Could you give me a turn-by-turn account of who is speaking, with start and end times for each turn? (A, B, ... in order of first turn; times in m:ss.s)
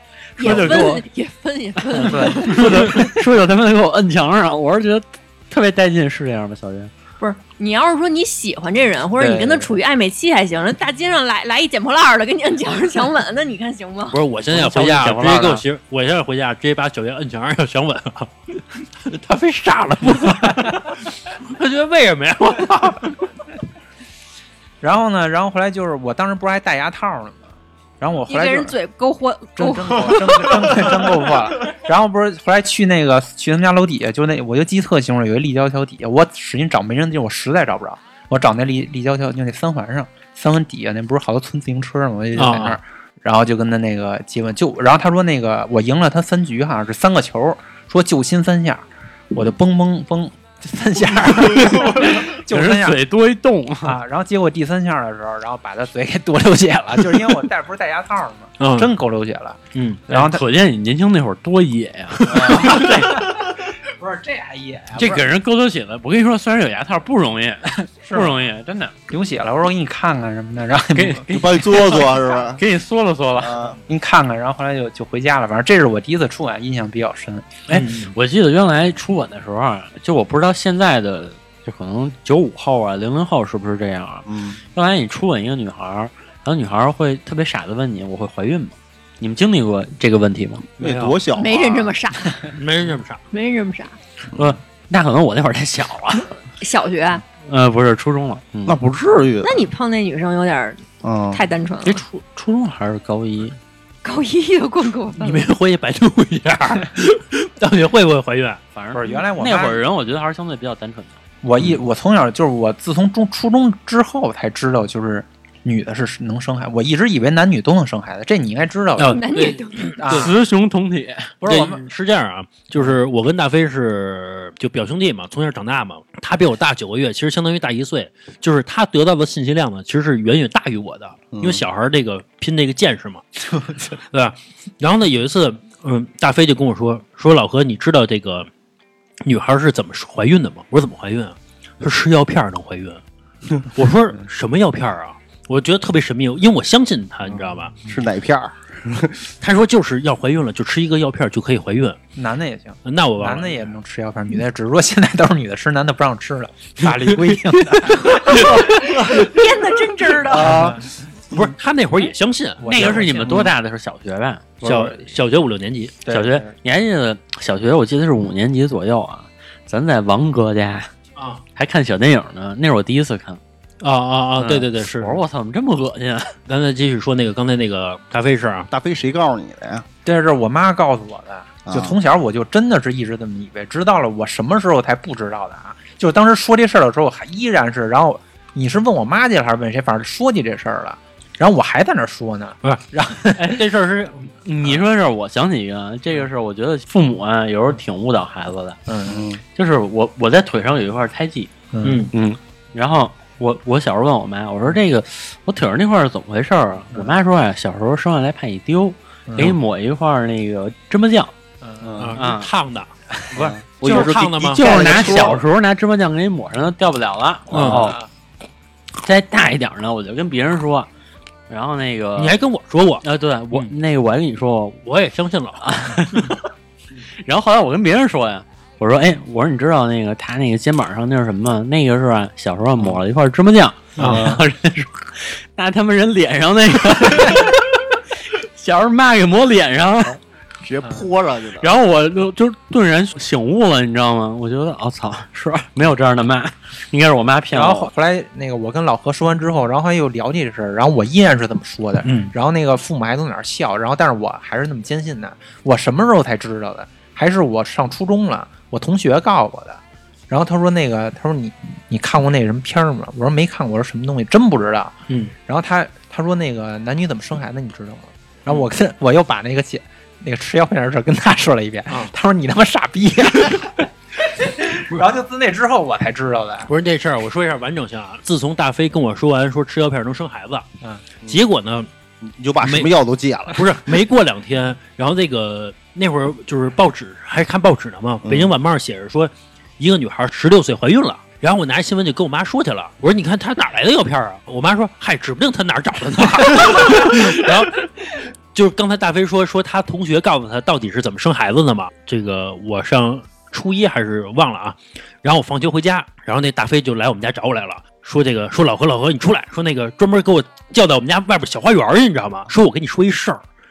0:00.4-0:01.0 A
0:00.4-0:02.8 B
0:01.9-0:06.9 A
0:02.2-0:02.4 C
0:07.2-0:14.2 B
0:09.2-0:09.8 C
0:14.1-0:23.3 D
0:14.5-0:15.6 A
0:24.8-0:28.8 C
0:28.3-0:30.4 B
0:29.6-0:53.0 C
0:42.4-0:42.8 D
0:51.8-0:54.0 A
0:53.8-1:00.4 C
0:58.6-0:58.9 D
0:59.7-1:00.0 D
1:00.1-1:03.2 A
1:02.2-1:03.0 D
1:02.3-1:05.3 C
1:05.0-1:08.9 A
1:08.0-1:08.5 C
1:09.1-1:11.3 C
1:10.9-1:13.7 A
1:11.3-1:12.6 E
1:13.4-1:13.8 E
1:13.8-1:17.6 C
1:17.7-1:30.6 A
1:17.7-1:18.1 D
1:24.3-1:24.6 E
1:30.8-1:31.2 D
1:30.8-1:32.0 E
1:31.3-1:32.6 B
1:32.5-1:33.2 D
1:33.3-1:34.0 B
1:34.4-1:36.4 A
1:36.6-1:37.2 B
1:37.4-1:38.8 A
1:38.7-1:39.6 E
1:39.4-1:40.8 B
1:41.0-1:41.5 E
1:41.3-1:42.0 B
1:41.8-1:43.6 A
1:44.0-1:45.5 B
1:45.2-1:48.6 D
1:48.7-1:51.2 A
1:48.9-1:49.8 C
1:51.4-1:59.4 C
1:59.0-2:00.3 D
1:59.1-2:00.0 B
2:00.0-2:00.3 C
2:00.1-2:01.3 A
2:01.4-2:01.9 C
2:01.5-2:13.2 D
2:11.3-2:11.6 E
2:13.8-2:18.5 D
2:19.2-2:23.0 D
2:23.6-2:27.8 D
2:27.3-2:29.3 E
2:29.4-2:32.0 D
2:32.2-2:39.2 C
2:32.8-2:33.7 D
2:38.2-2:40.6 B
2:40.3-2:40.9 C
2:40.4-2:40.8 E
2:41.3-2:43.2 D
2:42.6-2:43.5 C
2:42.6-2:44.6 A
2:44.6-2:45.1 C
2:44.6-2:46.0 D
2:46.0-2:46.5 C
2:46.1-2:50.9 A
2:51.2-2:51.4 D
2:51.6-2:53.4 A
2:53.8-2:55.2 D
2:54.4-2:56.4 A
2:56.5-2:58.7 D
2:58.7-2:59.8 E
3:00.0-3:13.6 C
3:01.7-3:02.0 E
3:13.4-3:14.3 D
3:14.4-3:18.8 A
3:18.9-3:19.2 C
3:19.1-3:19.4 E
3:19.5-3:21.5 A
3:21.7-3:22.1 C
3:21.8-3:22.1 D
3:22.1-3:31.3 A
3:29.3-3:29.6 C
3:31.6-3:32.1 C
3:31.8-3:32.2 E
3:32.0-3:32.9 D
3:32.2-3:32.5 A
3:33.3-3:35.4 E
3:33.3-3:38.0 A
3:33.8-3:35.4 D
3:37.5-3:37.8 E
3:37.5-3:37.8 D
3:37.7-3:38.1 C
3:39.0-3:40.9 A
3:41.5-3:42.4 A
3:42.2-3:43.7 D
3:43.0-3:44.8 A
3:44.8-3:46.3 D
3:45.6-3:46.4 A
3:47.2-4:00.2 A
3:54.0-3:54.3 D
3:54.0-3:54.4 E
4:00.6-4:01.8 E
4:01.6-4:07.9 A
4:07.5-4:36.7 C
4:12.0-4:12.3 D
4:25.1-4:25.3 D
4:36.7-4:40.7 D
4:41.3-4:41.9 D
4:42.2-4:43.9 E
4:42.6-4:42.9 D
4:43.5-5:13.4 D
4:48.2-4:48.5 E